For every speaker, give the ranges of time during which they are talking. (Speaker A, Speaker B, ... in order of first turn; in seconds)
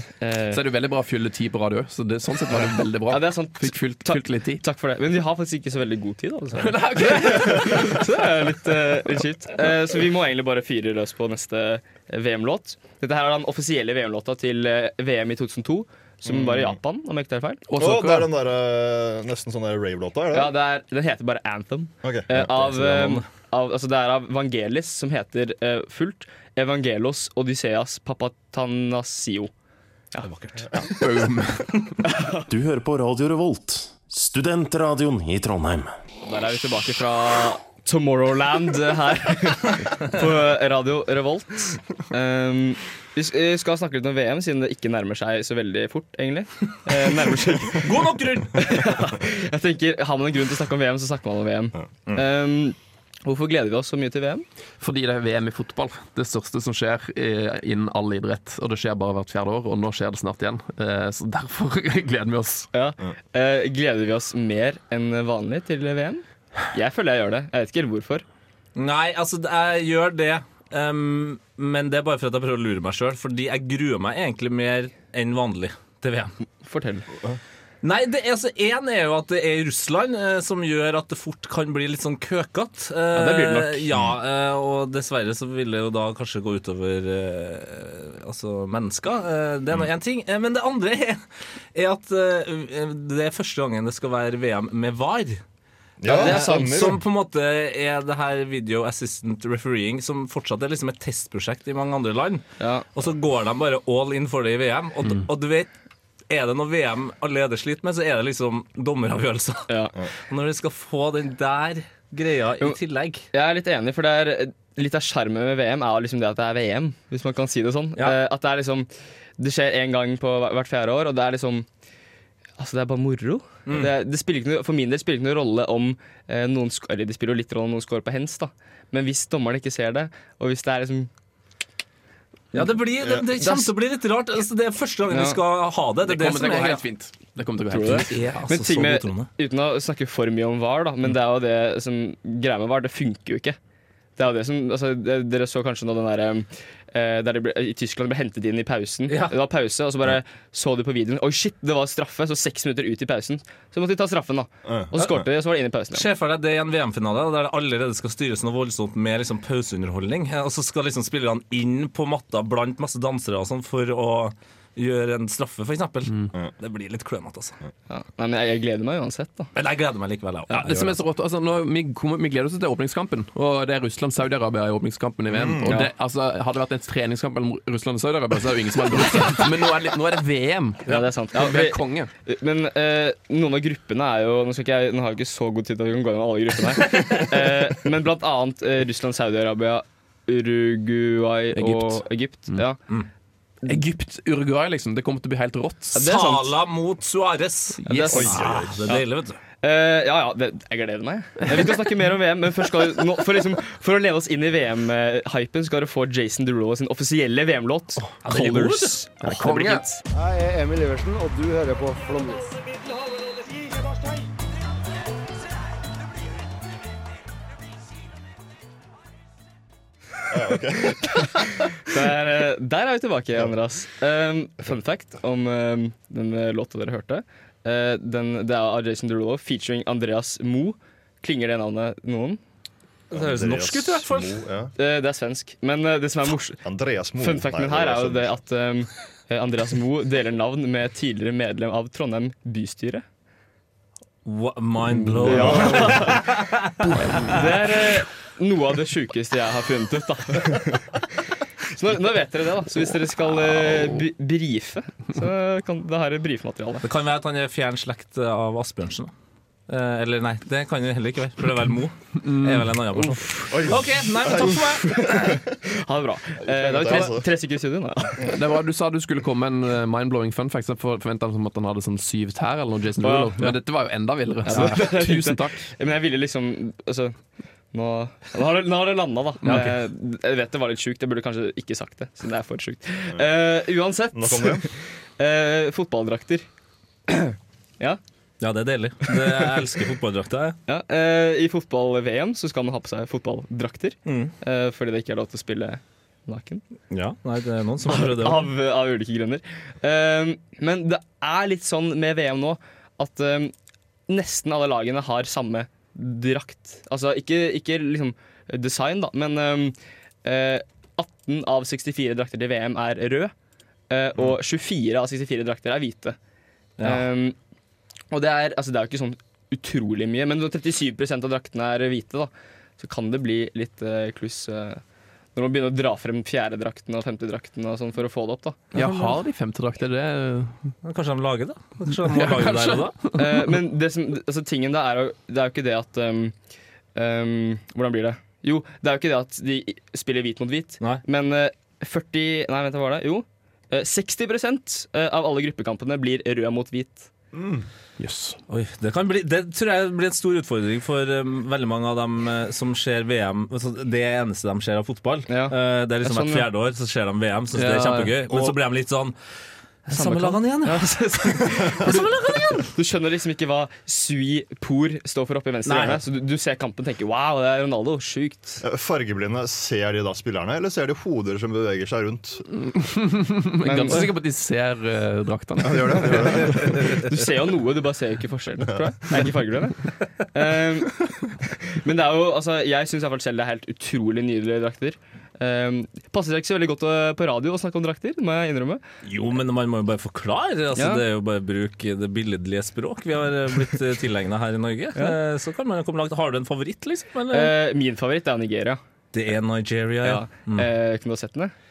Speaker A: 0.2-0.6, 3.1-17.6, 20.3-29.5, 30.1-30.8, 32.0-32.5, 36.2-54.4, 62.7-68.2, 76.6-77.1, 83.1-83.9, 96.0-97.0, 102.6-102.9, 109.7-109.9, 113.3-121.7, 122.6-131.1, 133.4-133.7, 135.1-135.4, 137.7-143.6, 144.2-156.1, 167.9-169.5, 180.9-192.8, 195.9-196.5, 197.9-199.1, 199.6-210.0, 221.8-232.4, 234.8-236.6, 237.2-243.0, 245.2-246.2, 247.0-251.0, 251.7-256.8, 264.4-268.3, 273.0-273.5, 274.4-277.1, 277.7-286.4, 287.1-288.0, 289.1-289.6, 290.7-296.6, 297.9-303.5, 304.1-313.3, 313.9-316.2, 316.8-317.4, 318.1-324.8, 325.4-329.2, 333.1-336.4, 336.9-347.1, 355.3-356.4, 359.9-368.6, 373.6-374.1, 376.1-388.8, 390.8-391.0, 397.3-398.8, 400.0-401.5
Speaker B: 0.5-4.6, 6.6-8.0, 17.7-18.3, 30.8-31.9, 54.8-62.7, 136.1-138.2, 170.5-182.1, 191.5-192.6, 193.7-196.0, 197.8-198.4, 209.2-209.8, 247.0-247.3, 262.2-263.2, 268.2-275.6, 279.4-279.7, 328.7-330.7, 332.1-333.2, 348.0-348.4, 357.6-358.1, 372.6-376.7
Speaker C: 16.2-16.8, 17.8-20.5, 22.0-22.5, 96.0-97.0, 154.7-155.2, 175.3-175.8, 198.1-198.8, 220.3-221.6, 233.1-234.7, 236.6-238.4, 245.3-246.1, 263.5-265.0, 266.4-267.3, 284.1-284.7, 347.3-347.6, 368.6-372.4, 375.6-376.7
Speaker D: 22.4-23.2, 30.2-30.7, 47.8-48.8, 68.8-76.3, 77.8-91.2, 91.8-95.4, 96.1-102.4, 102.9-105.7, 106.3-109.7, 110.3-113.2, 123.7-123.9, 132.5-136.8, 138.1-139.3, 149.1-149.4, 155.9-167.6, 169.5-170.9, 196.0-199.4, 208.2-209.0, 233.1-234.4, 244.2-247.4, 256.8-259.1, 259.7-265.4, 288.4-290.6, 294.1-294.3, 296.9-298.5, 316.8-317.1, 330.8-333.0, 348.5-359.1, 359.9-362.7, 365.6-366.0, 376.2-376.9, 389.0-397.5, 399.1-400.7
Speaker E: 32.5-35.9
Speaker F: 210.1-212.6